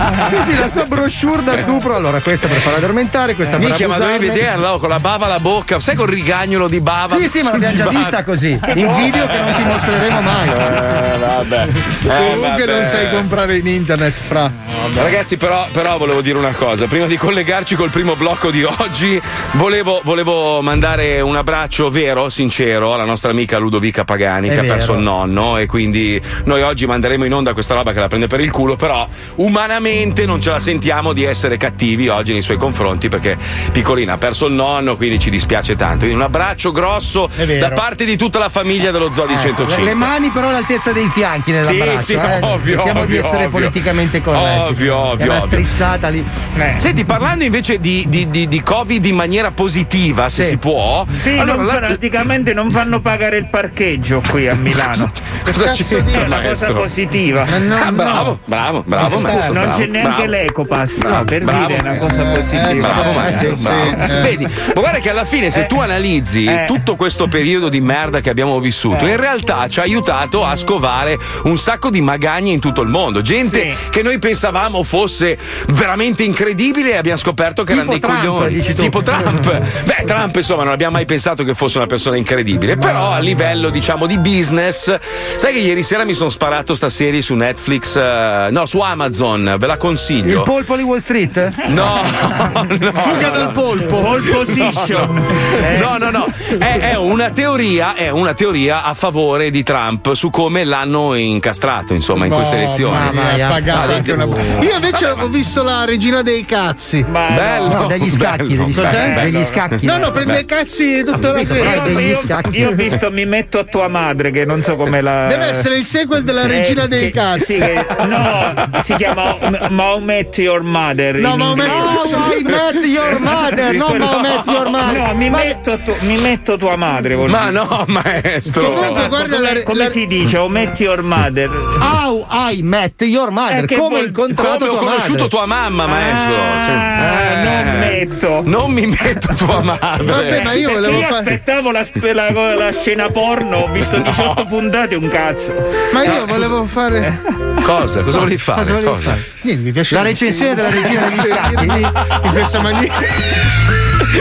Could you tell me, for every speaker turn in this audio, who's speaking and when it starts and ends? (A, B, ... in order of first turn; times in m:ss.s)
0:00.2-0:04.4 A
0:03.6-0:09.8 B
0:07.1-0:10.7 A
0:10.5-0:13.3 B
0:12.1-0:15.0 C
0:15.0-0:40.1 B
0:24.5-0:25.1 A
0:37.4-0:37.8 C
0:39.3-0:46.3 A
0:41.6-0:43.8 B
0:44.3-0:45.7 B
0:46.6-0:46.9 D
0:46.8-0:52.0 B
0:51.1-0:55.1 D
0:54.7-0:56.9 B
0:55.5-0:56.3 C
0:56.1-0:57.6 D
0:57.5-0:58.4 C
0:57.7-1:00.4 B
0:59.0-0:59.8 C
0:59.0-1:04.1 D
1:01.0-1:30.5 B
1:02.1-1:04.4 C
1:06.5-1:06.8 D
1:08.9-1:09.2 D
1:13.4-1:13.8 D
1:17.7-1:19.3 A
1:30.2-1:31.6 A
1:31.7-1:44.2 B
1:33.0-1:34.6 C
1:34.0-1:36.1 D
1:42.2-1:47.1 C
1:42.9-1:44.6 A
1:44.9-1:45.3 B
1:47.0-1:47.8 D
1:47.3-1:50.4 B
1:47.7-1:50.2 A
1:48.8-1:49.6 D
1:49.8-1:52.2 C
1:51.3-1:52.7 A
1:51.5-1:55.7 D
1:55.2-1:58.1 C
1:56.4-2:02.2 D
2:01.2-2:02.6 C
2:01.6-2:05.4 A
2:03.6-2:07.6 D
2:04.0-2:04.6 B
2:07.2-2:09.2 B
2:08.5-2:10.0 C
2:08.6-2:11.8 D
2:11.8-2:15.3 A
2:13.5-2:14.2 D
2:14.3-2:21.1 B
2:15.8-2:18.5 D
2:20.1-2:21.4 C
2:20.1-2:26.5 D
2:24.0-2:24.4 B
2:25.9-2:27.1 C
2:26.0-2:26.4 B
2:27.6-2:29.2 B
2:28.6-2:29.2 A
2:29.4-2:33.4 C
2:29.9-2:31.9 A